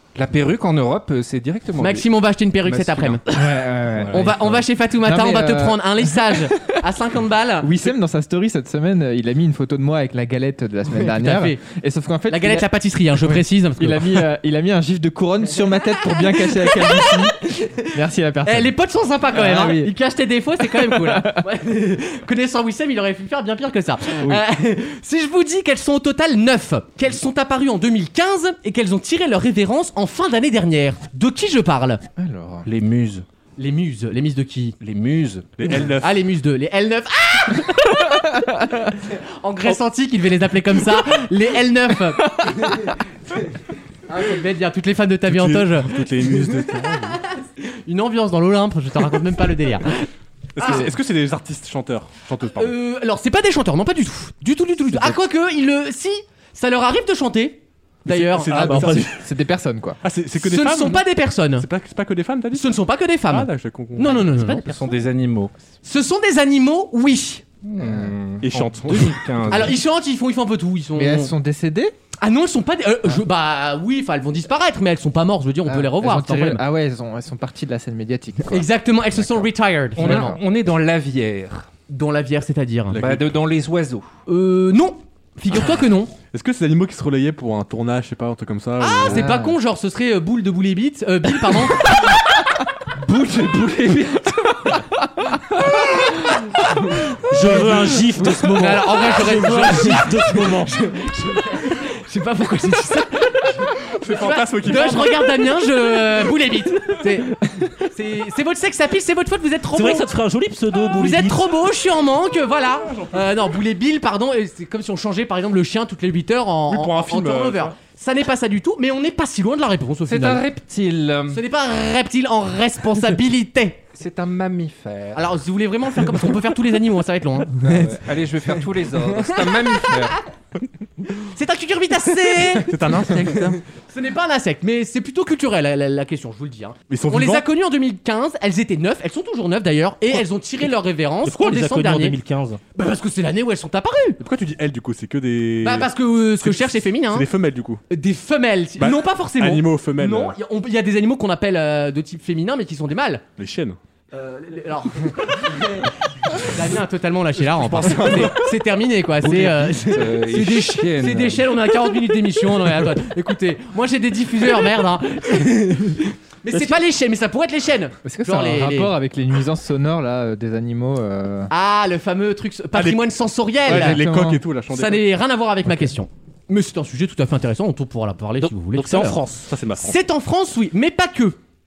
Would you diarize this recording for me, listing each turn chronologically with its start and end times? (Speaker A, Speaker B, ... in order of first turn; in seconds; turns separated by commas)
Speaker A: 0.1-2.1, Speaker B: 1.8-3.2, Speaker A: 2.6-3.2, Speaker C: 3.3-6.7, Speaker A: 4.0-4.4, Speaker B: 4.1-7.8, Speaker C: 7.6-12.7, Speaker B: 10.9-11.6, Speaker B: 12.3-14.2, Speaker C: 13.2-18.7, Speaker B: 16.1-17.9, Speaker B: 18.4-32.0, Speaker C: 19.3-19.9, Speaker C: 20.6-21.4, Speaker C: 32.2-32.7, Speaker A: 32.6-33.2, Speaker B: 33.6-34.7, Speaker A: 34.8-35.5, Speaker D: 35.6-36.2, Speaker B: 36.0-38.0, Speaker C: 38.1-38.9, Speaker B: 39.0-43.5, Speaker B: 44.1-46.4, Speaker D: 45.3-47.2, Speaker B: 47.6-50.0, Speaker D: 50.5-52.8, Speaker B: 50.6-50.9, Speaker B: 52.5-59.0, Speaker D: 58.1-59.2, Speaker C: 58.5-60.0, Speaker D: 60.0-62.8, Speaker B: 60.4-61.6, Speaker B: 62.5-64.7, Speaker D: 63.3-64.5, Speaker A: 64.3-65.5, Speaker B: 65.8-67.4, Speaker A: 67.6-69.8, Speaker C: 67.8-68.1, Speaker D: 68.4-69.7, Speaker B: 69.5-71.3, Speaker C: 71.0-71.9, Speaker B: 72.2-76.6, Speaker C: 75.7-79.5, Speaker B: 78.5-80.4, Speaker A: 80.0-81.7, Speaker C: 80.0-80.3, Speaker B: 81.9-83.0, Speaker D: 82.9-83.3, Speaker A: 83.0-84.1, Speaker B: 84.3-86.1, Speaker D: 86.3-89.5, Speaker B: 88.8-92.0, Speaker C: 89.1-89.5, Speaker B: 93.0-94.3, Speaker E: 97.3-100.8, Speaker B: 98.5-110.1, Speaker D: 103.9-105.5, Speaker E: 109.7-111.5, Speaker B: 110.9-120.4, Speaker D: 116.7-117.7, Speaker A: 120.1-121.4, Speaker B: 121.3-123.8, Speaker A: 124.0-125.3, Speaker B: 125.1-127.9, Speaker A: 127.6-130.2, Speaker B: 129.1-130.1, Speaker B: 131.2-142.2, Speaker D: 132.5-133.6, Speaker D: 136.9-137.4, Speaker E: 141.2-142.6, Speaker B: 142.7-144.2, Speaker D: 144.2-147.8, Speaker B: 145.6-147.3, Speaker B: 147.9-153.2, Speaker D: 148.8-150.3, Speaker D: 153.4-153.8, Speaker B: 154.1-168.9, Speaker D: 157.4-158.5, Speaker A: 159.2-161.5, Speaker C: 168.0-171.5, Speaker B: 171.5-174.0, Speaker D: 172.7-173.1, Speaker D: 173.6-175.1, Speaker C: 173.7-174.4, Speaker B: 174.7-179.2, Speaker E: 178.4-179.5, Speaker D: 179.5-180.0, Speaker B: 179.8-181.4